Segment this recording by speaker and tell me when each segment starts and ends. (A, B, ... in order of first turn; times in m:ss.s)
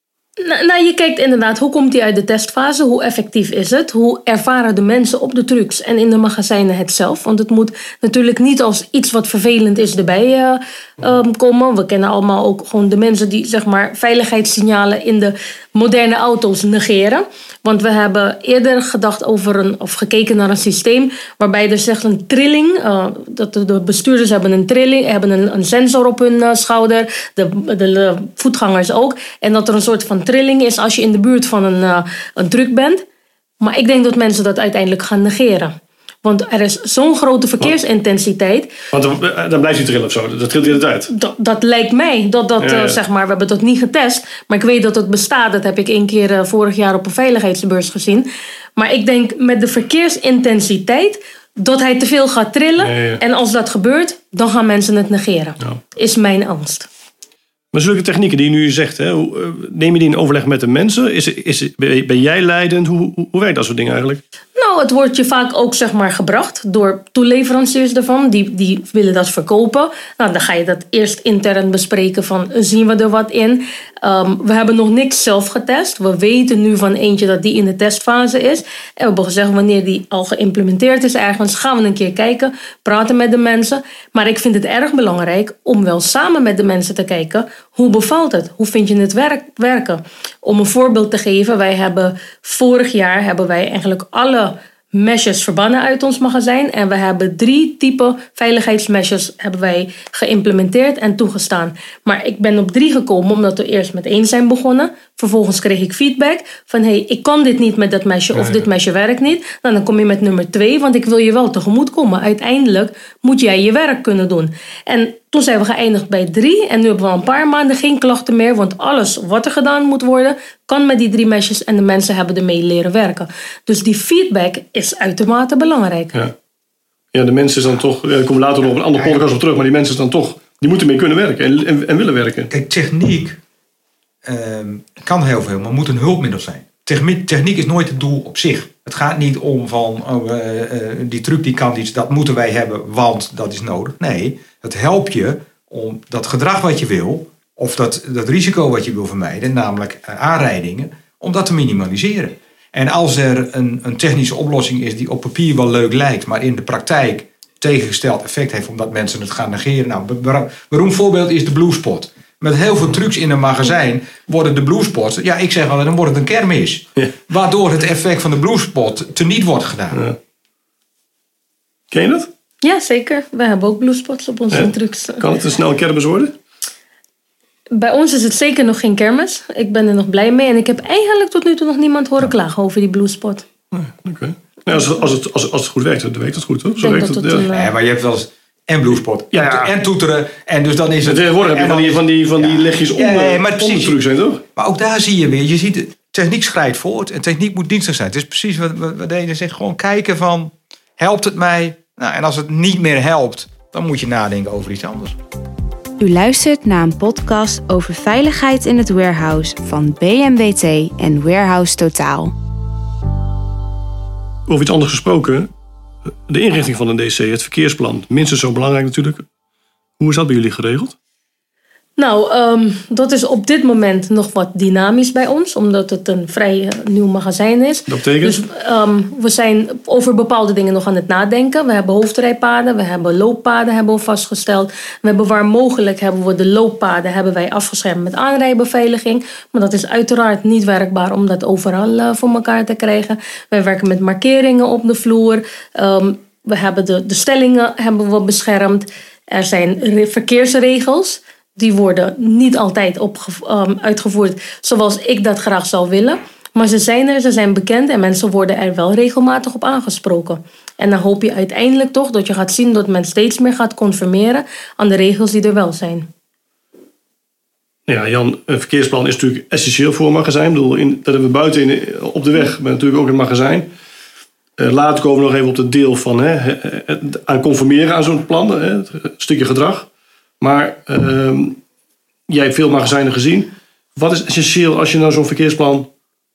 0:00.4-0:33.0 A
0:33.6-0:35.7 A
0:36.2-0:38.7 A
0:38.9-0:41.1 B
0:41.1-0:56.9 A
0:42.6-0:43.0 B
0:52.8-0:53.2 B
0:57.7-1:04.2 B
1:04.6-2:06.1 A
1:48.4-1:48.6 B
2:07.1-2:12.5 B
2:12.5-2:13.4 C
2:14.2-2:50.0 C
2:51.9-2:52.3 B
2:52.6-2:55.3 A
2:54.5-2:56.3 B
2:57.7-3:03.4 A
3:03.7-3:07.4 B
3:06.8-3:07.7 A
3:07.5-3:14.0 C
3:09.3-3:09.7 B
3:11.0-3:14.4 B
3:14.6-3:25.2 C
3:26.0-3:32.3 D
3:34.5-3:35.5 B
3:36.3-3:39.2 B
3:40.0-3:40.9 B
3:42.0-4:26.1 A
3:47.9-3:48.4 B
4:27.9-4:33.7 B
4:34.6-4:39.9 B
4:40.4-4:41.6 B
4:42.3-4:45.9 B